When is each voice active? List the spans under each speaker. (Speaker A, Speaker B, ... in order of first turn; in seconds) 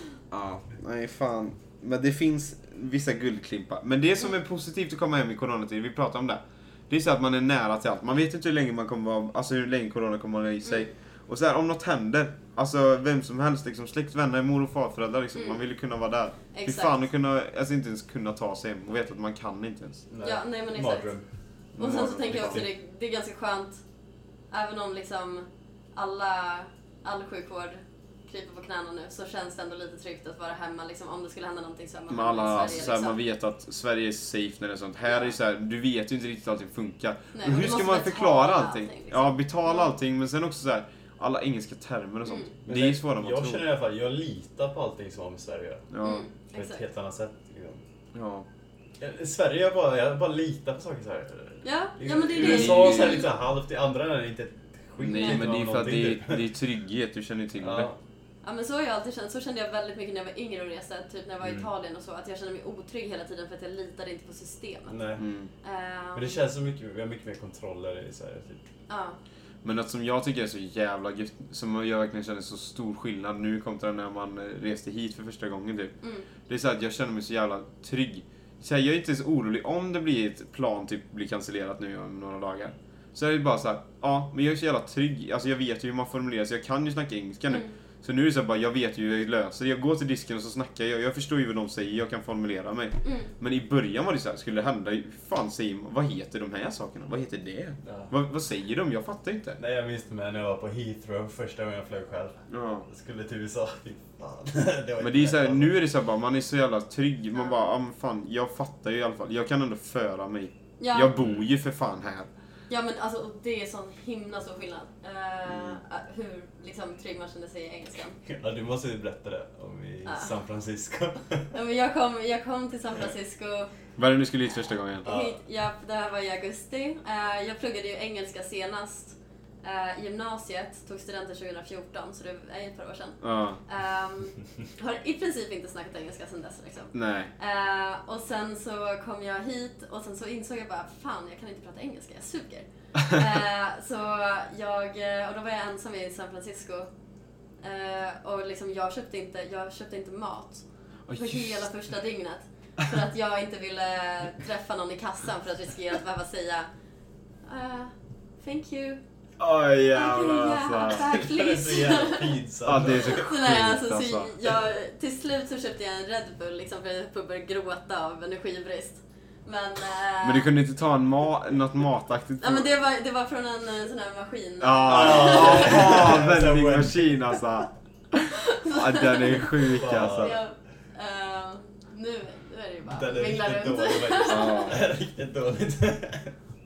Speaker A: 0.3-20.1, 21.7-22.7, 32.1-43.6, 45.9-46.3, 48.1-48.5, 52.4-53.2, 55.0-57.9, 65.2-65.5, 69.6-75.9, 76.5-99.6, 102.5-102.9, 105.0-112.3, 115.5-115.8, 124.0-125.1, 133.2-133.6, 136.9-137.3, 151.1-151.6, 159.4-161.0, 162.6-164.3, 170.2-172.7, 174.6-180.3, 184.2-184.8
Speaker B: 16.5-17.0, 20.2-21.1, 21.8-23.8, 24.5-33.2, 35.1-35.3, 37.3-39.9, 42.2-42.5, 46.0-46.8, 51.6-53.3, 55.1-55.4, 58.4-64.9, 65.6-66.4, 68.9-69.2, 76.0-76.3, 87.5-87.8, 93.0-93.3, 110.8-111.1, 112.7-118.2, 120.0-120.3, 121.5-123.7, 125.0-146.9, 147.6-150.6, 151.1-156.7, 157.4-159.0, 159.9-170.5, 172.4-175.8, 178.5-184.7
Speaker C: 20.1-21.2, 22.1-22.7, 42.6-45.9, 46.5-47.8, 49.0-56.4, 57.6-58.0, 61.4-61.7, 64.9-65.2, 66.1-68.6, 97.8-98.1, 99.6-105.8, 118.2-121.5, 125.0-125.4, 160.9-163.2, 174.8-177.5, 179.7-180.4, 182.8-186.3